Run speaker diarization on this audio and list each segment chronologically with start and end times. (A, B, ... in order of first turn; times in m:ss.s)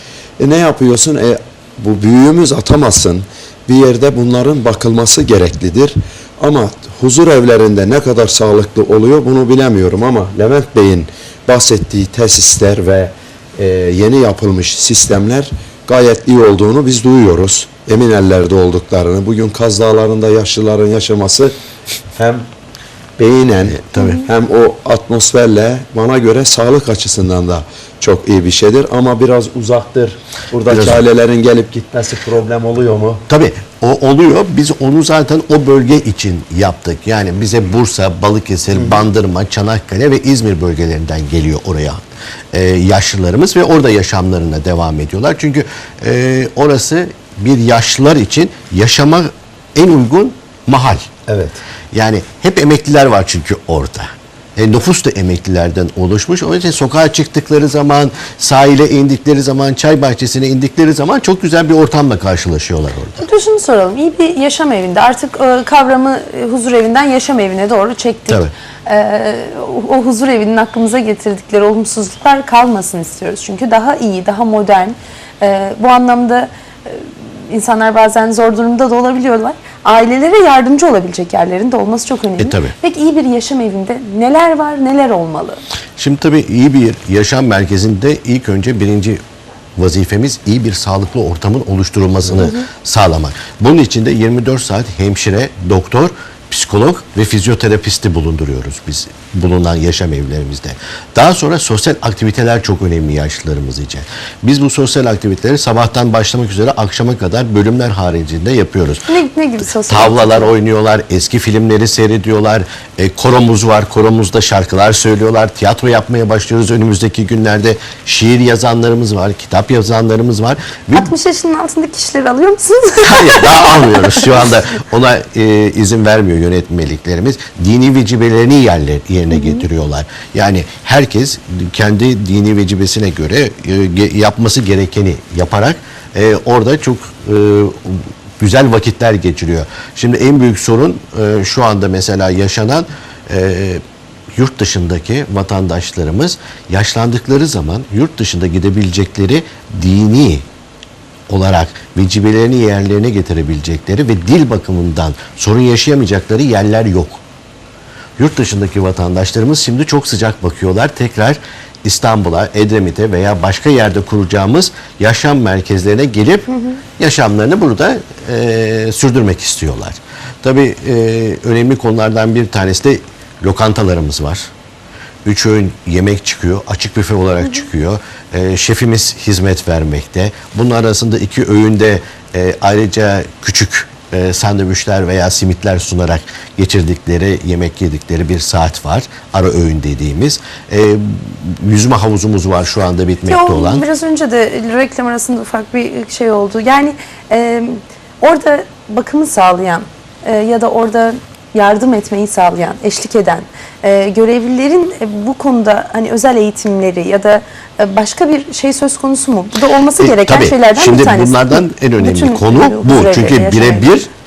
0:00.4-0:21.5 A
0:22.2-0:22.4 A
0:23.2-0:33.2 A
0:23.7-0:24.2 B
0:24.0-0:24.2 C
0:30.7-0:31.0 B
0:33.3-0:42.0 B
0:38.7-0:39.0 A
0:42.5-0:51.1 B
0:51.3-0:51.6 A
0:51.9-1:03.2 B
1:03.2-1:25.6 C
1:22.4-1:22.7 B
1:26.0-1:29.2 B
1:29.8-1:49.0 B
1:32.4-1:32.6 C
1:49.1-1:50.5 C
1:49.9-2:01.1 B
2:01.0-2:04.2 C
2:03.0-2:23.8 B
2:09.3-2:09.6 C
2:24.4-2:30.4 B
2:31.3-2:37.2 B
2:38.2-2:54.5 B
2:46.5-2:46.8 C
2:55.2-3:13.8 B
3:13.3-3:34.0 C
3:30.0-3:34.1 B